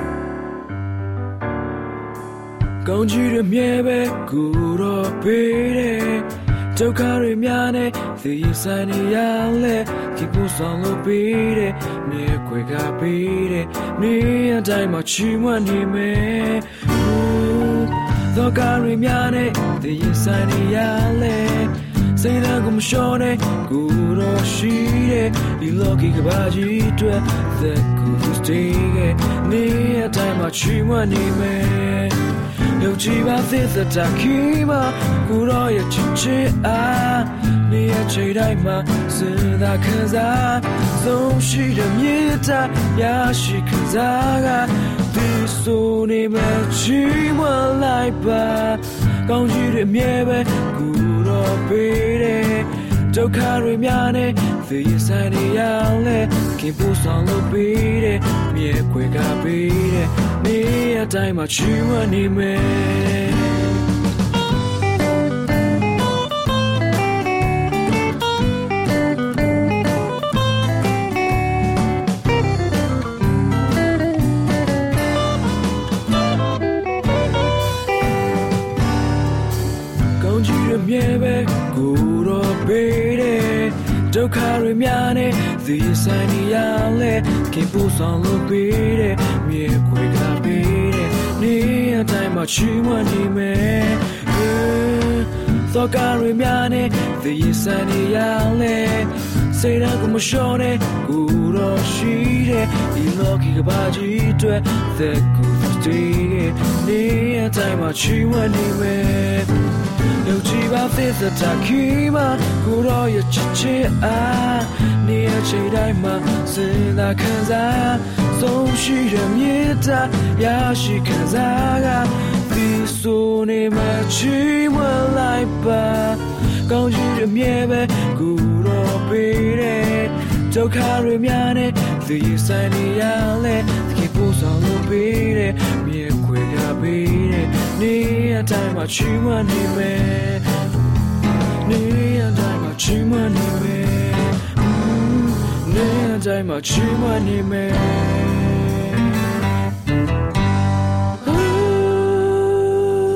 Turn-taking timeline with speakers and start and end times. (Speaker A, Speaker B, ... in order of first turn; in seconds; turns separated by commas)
Speaker A: 2.8-32.2, Speaker A: 32.8-63.6, Speaker A: 80.2-109.5, Speaker A: 110.2-140.4, Speaker A: 141.7-148.7, Speaker A: 151.2-152.9